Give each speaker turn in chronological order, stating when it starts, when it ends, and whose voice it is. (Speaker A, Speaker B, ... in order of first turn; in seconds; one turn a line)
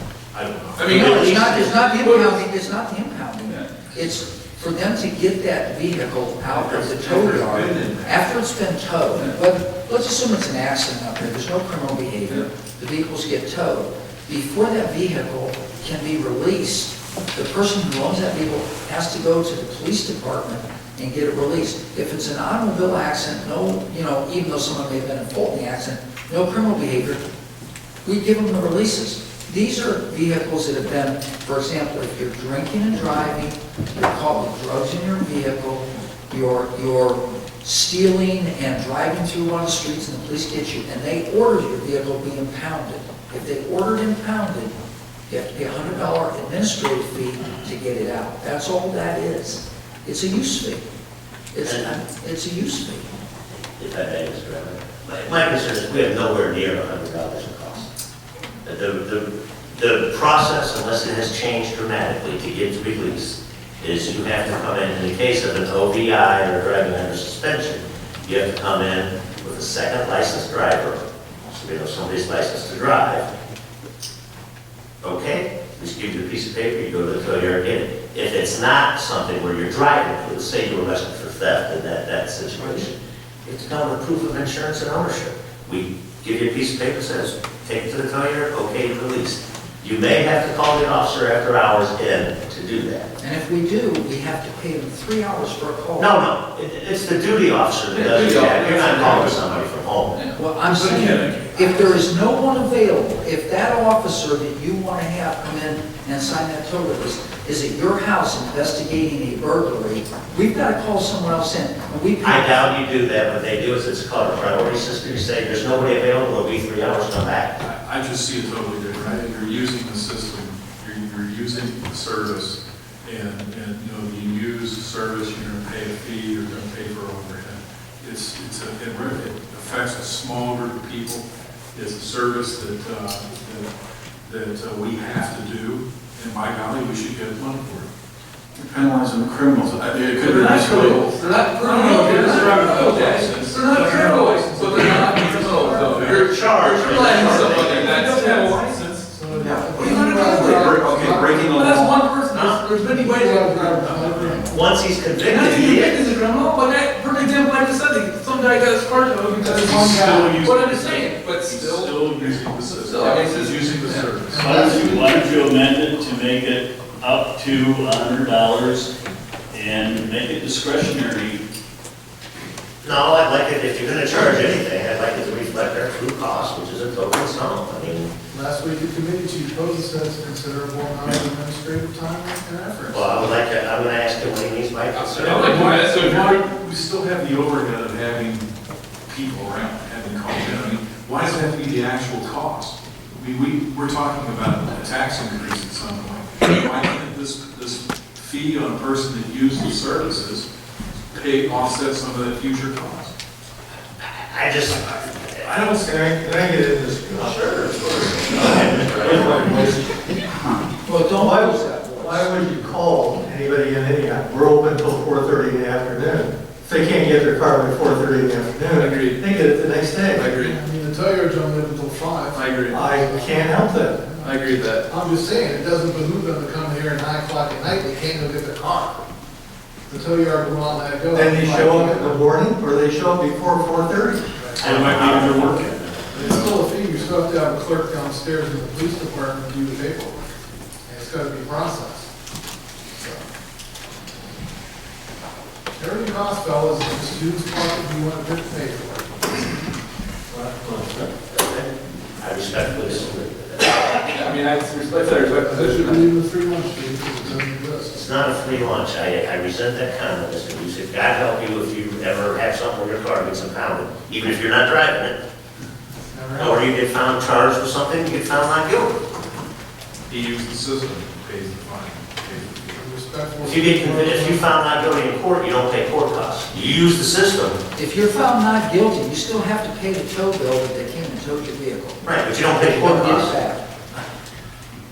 Speaker A: 0.3-1.0
Speaker B: 0.8-2.5
Speaker C: 0.9-27.3
Speaker D: 0.9-1.7
Speaker A: 6.5-8.2
Speaker C: 28.0-44.8
Speaker C: 45.3-50.8
Speaker C: 51.5-53.1
Speaker D: 51.6-52.0
Speaker D: 53.8-57.9
Speaker D: 58.6-73.3
Speaker D: 75.0-93.1
Speaker C: 93.2-96.1
Speaker D: 96.0-100.2
Speaker B: 97.9-100.4
Speaker C: 100.3-112.6
Speaker A: 100.8-101.2
Speaker D: 112.2-117.5
Speaker A: 117.6-133.7
Speaker A: 134.2-137.9
Speaker A: 138.6-146.3
Speaker B: 140.2-148.7
Speaker E: 140.4-140.9
Speaker F: 142.1-142.8
Speaker F: 144.0-146.1
Speaker D: 146.1-147.9
Speaker A: 146.9-149.0
Speaker F: 149.0-151.4
Speaker B: 149.8-150.9
Speaker A: 150.7-151.3
Speaker E: 151.0-151.7
Speaker B: 151.4-154.2
Speaker D: 152.3-152.6
Speaker F: 152.8-154.7
Speaker D: 154.5-156.1
Speaker B: 155.2-164.2
Speaker F: 159.4-160.3
Speaker A: 159.5-164.8
Speaker F: 164.3-165.4
Speaker E: 164.3-168.9
Speaker E: 169.5-171.4
Speaker D: 172.8-178.1
Speaker F: 178.3-183.4
Speaker D: 182.9-185.6
Speaker B: 184.9-186.4
Speaker A: 185.2-188.5
Speaker A: 189.1-200.5
Speaker A: 201.1-203.1
Speaker D: 204.0-205.5
Speaker A: 205.4-206.0
Speaker G: 205.8-209.9
Speaker D: 207.2-209.6
Speaker C: 210.8-212.3
Speaker G: 211.1-220.3
Speaker B: 218.7-219.3
Speaker B: 220.1-220.6
Speaker F: 220.3-229.0
Speaker B: 222.3-222.9
Speaker G: 222.7-224.0
Speaker B: 224.2-224.9
Speaker F: 229.9-232.2
Speaker G: 231.1-234.4
Speaker F: 234.3-234.7
Speaker A: 234.6-236.6
Speaker D: 234.6-235.9
Speaker F: 236.1-240.3
Speaker F: 240.8-242.1
Speaker F: 245.8-249.2
Speaker D: 251.2-254.0
Speaker B: 253.9-256.1
Speaker F: 255.4-258.0
Speaker D: 257.9-265.2
Speaker F: 266.1-266.6
Speaker D: 266.4-269.0
Speaker A: 270.1-272.8
Speaker F: 272.7-274.4
Speaker D: 273.4-277.6
Speaker C: 277.7-283.6
Speaker D: 282.0-283.3